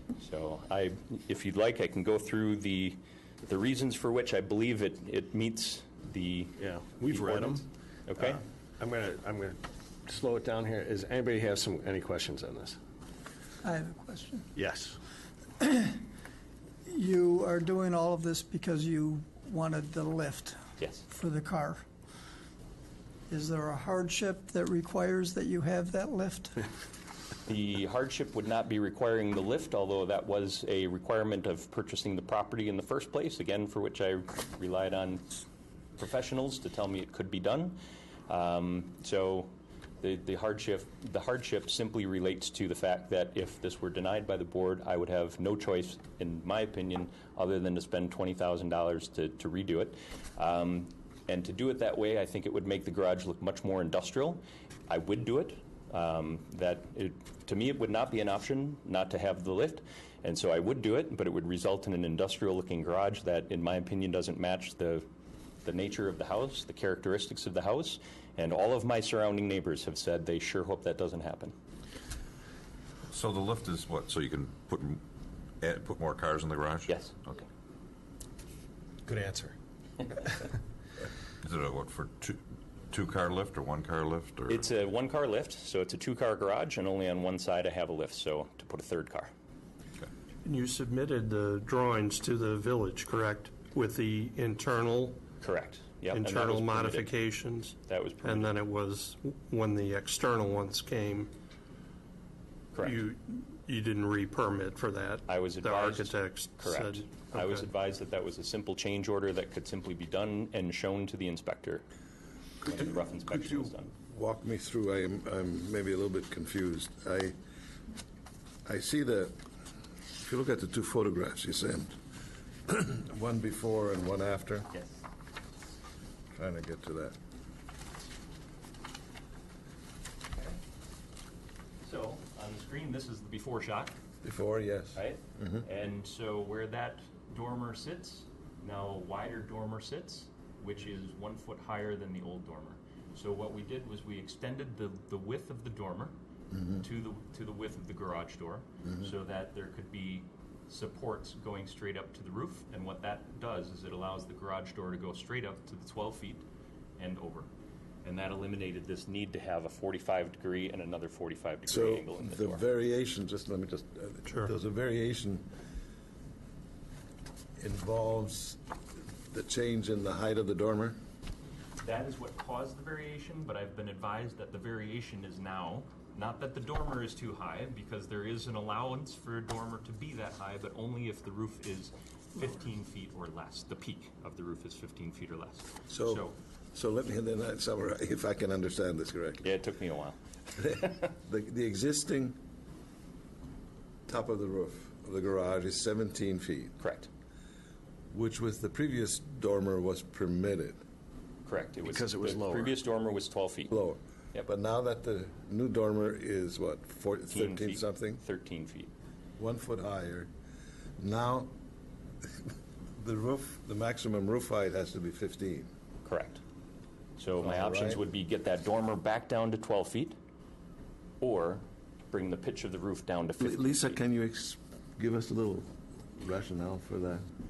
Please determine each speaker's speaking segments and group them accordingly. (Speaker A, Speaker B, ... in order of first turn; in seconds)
Speaker A: 0.2-8.4, 20.8-21.1, 27.5-35.3, 36.0-65.1, 65.6-71.5, 76.9-77.1, 84.5-89.3, 95.4-97.1, 97.8-98.6, 102.7-103.0, 105.3-111.8, 112.6-113.9, 124.7-125.0, 131.8-133.9, 134.9-146.2, 146.7-156.4, 157.0-157.5, 158.0-162.6, 171.8-186.4, 189.4-190.2, 196.8-197.1, 201.4-203.7, 207.3-208.9, 216.1-216.4, 217.2-220.2, 221.2-224.0
Speaker B: 6.6-7.6, 8.2-12.8, 14.6-15.0, 79.0-79.5, 201.8-202.8
Speaker C: 13.6-14.5, 15.6-16.0, 16.9-21.9, 23.3-26.6
Speaker D: 73.1-75.0, 75.6-77.4, 81.4-82.4, 82.9-84.7
Speaker E: 90.5-95.2, 96.1-101.3, 102.8-107.7
Speaker F: 112.6-117.3, 118.7-119.4, 120.2-122.0, 122.7-124.7, 126.3-127.2, 134.2-135.0, 161.7-165.5, 167.6-168.6, 169.3-171.0, 185.9-189.4, 190.6-192.4, 194.1-196.7, 198.1-200.8, 203.7-208.2, 209.4-210.3, 211.0-211.5, 213.0-215.7, 217.4-218.0, 223.4-227.2